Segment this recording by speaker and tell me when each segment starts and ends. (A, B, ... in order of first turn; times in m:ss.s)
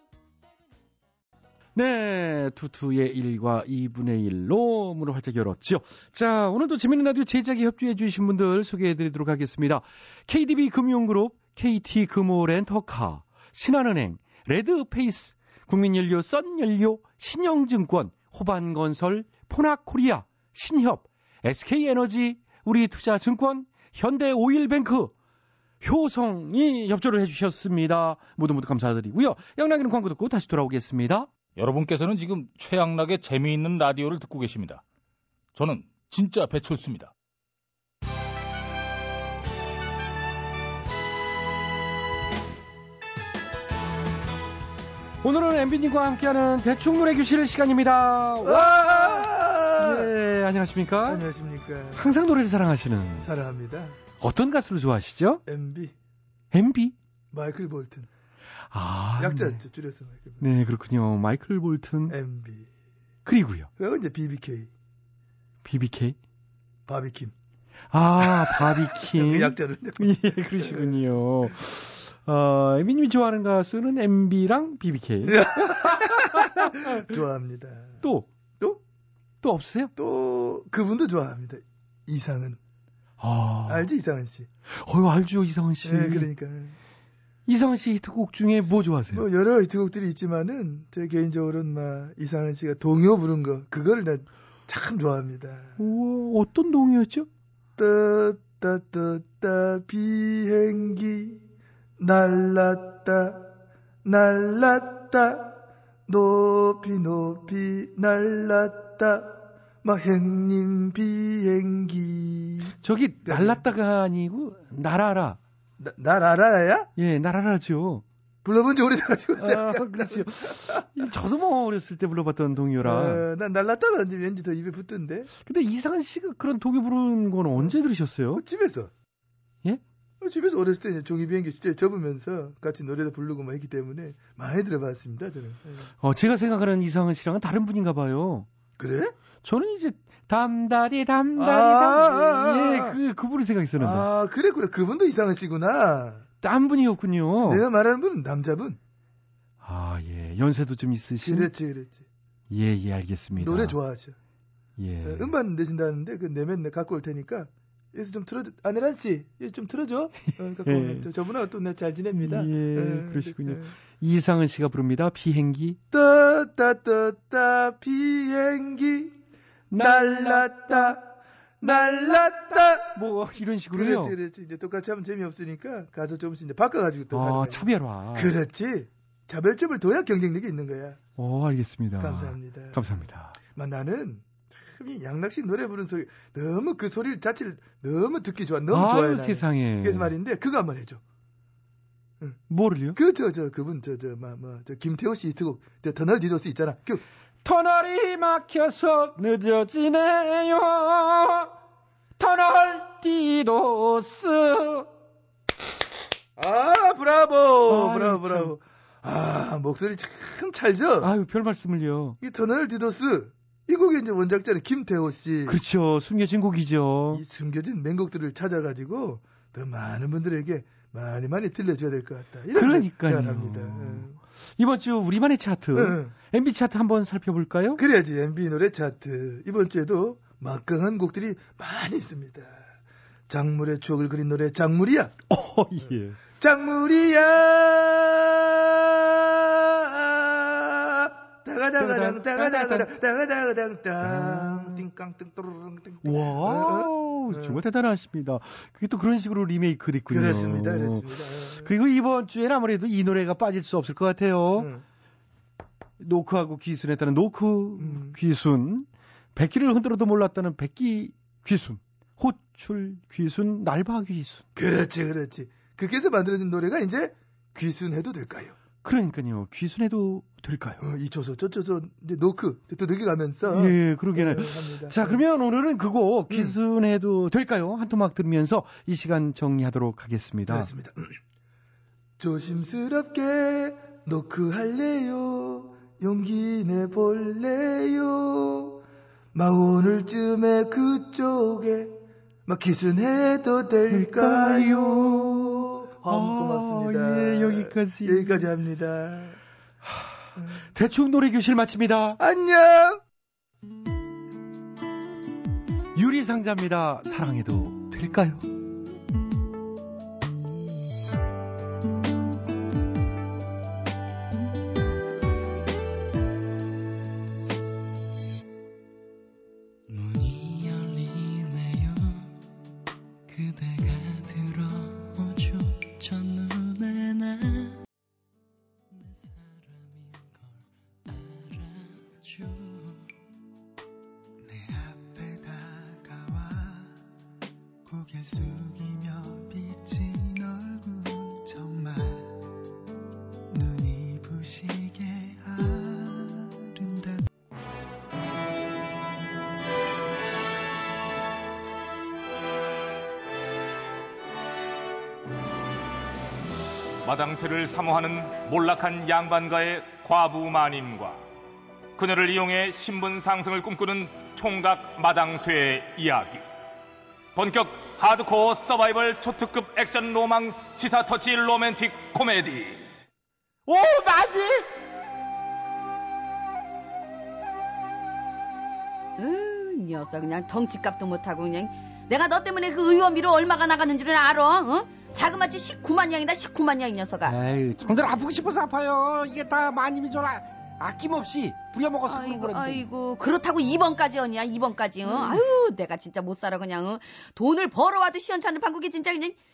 0:01.7-0:25.1 A
0:25.8-0:31.3 A
0:31.6-0:34.8 B
0:35.6-0:37.1 B
0:45.2-0:51.2 A
0:48.4-0:50.1 C
0:51.1-0:52.1 C
0:52.0-0:53.3 A
0:53.2-0:54.0 C
0:54.2-0:55.4 A
0:55.4-0:55.9 C
0:56.5-0:57.0 A
0:57.3-0:58.1 C
0:58.7-0:59.6 A
0:59.2-1:00.4 C
1:00.4-1:02.2 A
1:02.1-1:02.7 C
1:03.2-1:03.7 A
1:03.8-1:04.7 C
1:05.6-1:06.2 A
1:06.9-1:07.3 C
1:07.9-1:17.0 A
1:08.2-1:11.0 C
1:15.2-1:18.0 C
1:18.0-1:18.3 A
1:19.4-1:19.9 A
1:20.0-1:22.6 C
1:23.2-1:23.9 A
1:23.6-1:24.5 C
1:24.7-1:26.3 A
1:25.8-1:26.8 C
1:27.5-1:29.3 A
1:29.1-1:35.8 C
1:35.8-1:37.3 A
1:37.8-1:41.4 C
1:42.0-1:43.5 C
1:44.0-1:45.6 C
1:46.1-1:52.7 C
1:52.8-1:55.4 A
1:53.3-1:53.6 C
1:55.8-1:56.9 C
1:57.0-1:58.0 A
1:58.4-2:01.0 C
1:59.4-2:03.2 A
2:02.8-2:05.3 C
2:05.4-2:08.4 A
2:08.3-2:08.9 C
2:10.2-2:15.9 C
2:16.0-2:18.5 A
2:18.8-2:19.1 C
2:19.4-2:24.1 A
2:21.4-2:23.0 C
2:23.8-2:26.2 C
2:26.4-2:27.6 A
2:27.5-2:28.8 C
2:29.6-2:31.5 A
2:31.2-2:32.0 C
2:32.5-2:33.8 A
2:33.4-2:34.2 C
2:34.8-2:35.3 A
2:35.0-2:43.8 C
2:40.6-2:41.1 A
2:42.2-2:45.8 A
2:45.9-2:49.2 C
2:49.7-2:51.0 A
2:49.8-2:52.9 C
2:51.6-2:54.2 A
2:53.7-3:01.0 C
2:57.1-2:58.3 A
3:01.2-3:03.4 A
3:02.0-3:11.0 C
3:08.7-3:10.1 A
3:12.5-3:13.0 A
3:12.9-3:17.0 C
3:17.4-3:21.5 A
3:22.2-3:24.8 A
3:26.4-3:31.1 C
3:27.7-3:28.5 A
3:31.0-3:32.2 A
3:32.2-3:35.6 C
3:35.4-3:37.2 A
3:37.1-3:44.2 C
3:42.5-3:47.8 A
3:45.7-3:46.1 C
3:47.8-3:52.5 C
3:53.3-3:55.1 C
3:55.3-3:56.2 A
3:56.4-4:07.6 C
4:01.8-4:02.9 A
4:04.0-4:04.8 A
4:06.0-4:11.1 A
4:10.1-4:11.7 C
4:11.6-4:14.7 A
4:14.6-4:14.8 C
4:16.0-4:24.4 A
4:17.8-4:18.2 C
4:24.6-4:28.6 C
4:28.8-4:30.8 A
4:30.8-4:35.2 C
4:33.5-4:40.7 A
4:36.3-4:36.5 C
4:40.5-4:41.1 C
4:42.2-4:59.4 C
4:53.9-4:58.5 A
5:00.7-5:02.2 A
5:02.2-5:03.0 C
5:05.9-5:08.5 A
5:32.4-5:32.7 D
5:34.4-5:37.0 D
5:37.8-5:42.5 D
5:43.5-5:47.2 D
5:57.0-6:01.2 E
6:02.0-6:06.4 E
6:07.4-6:12.8 E
6:13.6-6:14.7 A
6:19.2-6:27.4 F
6:27.2-6:32.8 A
6:32.1-6:39.4 F
6:35.0-6:35.4 A